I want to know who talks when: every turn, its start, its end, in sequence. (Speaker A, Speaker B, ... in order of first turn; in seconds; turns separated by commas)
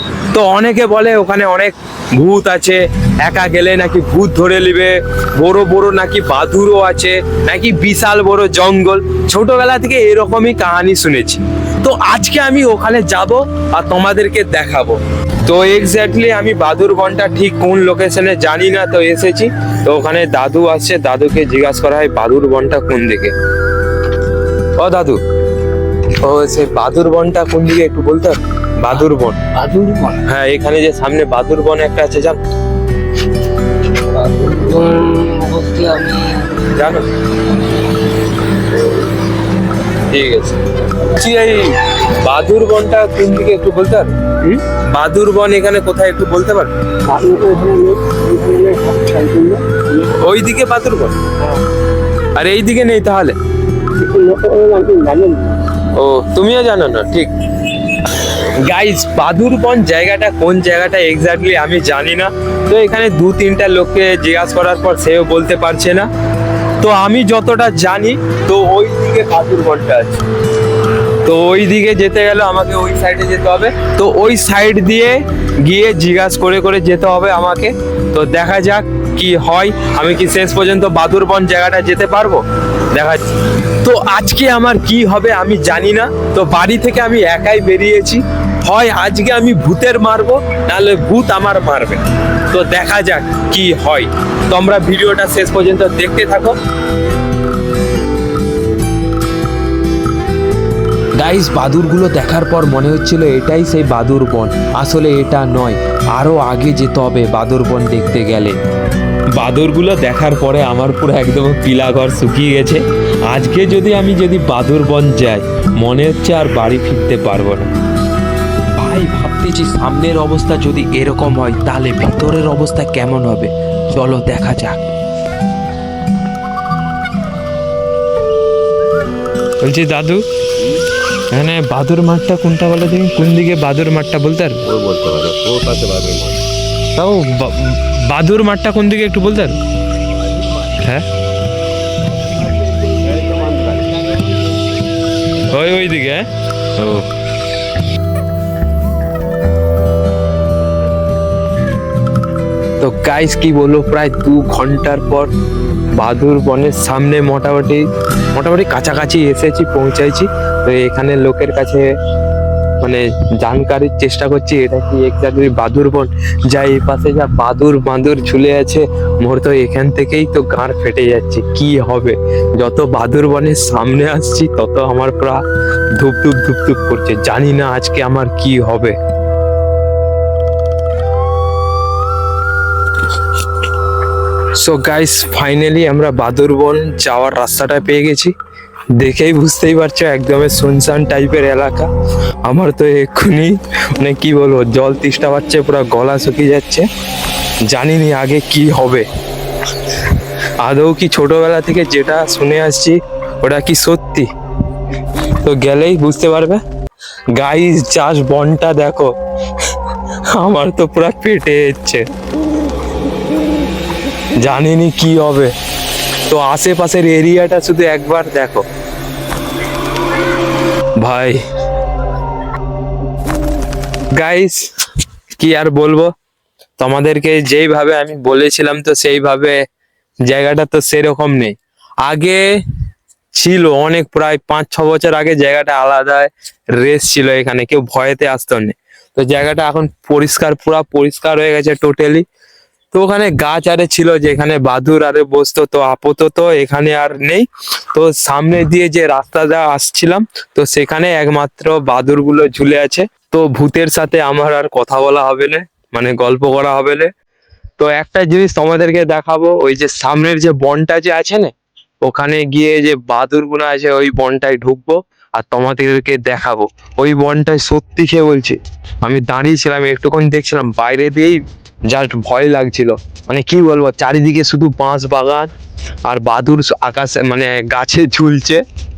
Speaker A: 0.3-23.3, Speaker A: 24.8-25.2, Speaker A: 26.2-32.4, Speaker B: 29.8-30.1, Speaker B: 34.1-36.4, Speaker A: 36.6-37.0, Speaker A: 40.1-46.7, Speaker B: 47.1-49.6, Speaker A: 49.9-51.2, Speaker A: 52.3-53.4, Speaker B: 53.9-55.6, Speaker A: 55.9-66.1, Speaker A: 66.8-70.2, Speaker A: 71.2-96.5, Speaker A: 101.2-108.6, Speaker A: 109.3-117.7, Speaker A: 118.7-124.8, Speaker A: 129.6-130.2, Speaker A: 131.3-134.7, Speaker C: 134.7-136.4, Speaker A: 136.9-139.6, Speaker A: 140.7-141.0, Speaker C: 142.9-144.0, Speaker A: 145.4-147.1, Speaker A: 152.8-155.3, Speaker A: 155.9-161.9, Speaker A: 162.8-175.4, Speaker A: 175.9-178.9, Speaker A: 184.6-188.3, Speaker A: 189.0-191.9, Speaker A: 192.4-196.9, Speaker A: 197.7-199.0, Speaker A: 200.6-204.3, Speaker A: 205.4-206.6, Speaker A: 207.3-209.1, Speaker A: 210.3-212.0, Speaker A: 214.4-215.5, Speaker A: 216.3-218.6, Speaker A: 221.0-221.4, Speaker A: 224.1-224.7, Speaker A: 225.4-226.1, Speaker A: 226.8-229.6, Speaker A: 230.2-232.4, Speaker A: 233.3-242.2, Speaker A: 242.9-257.1, Speaker A: 257.8-275.5, Speaker A: 276.0-278.6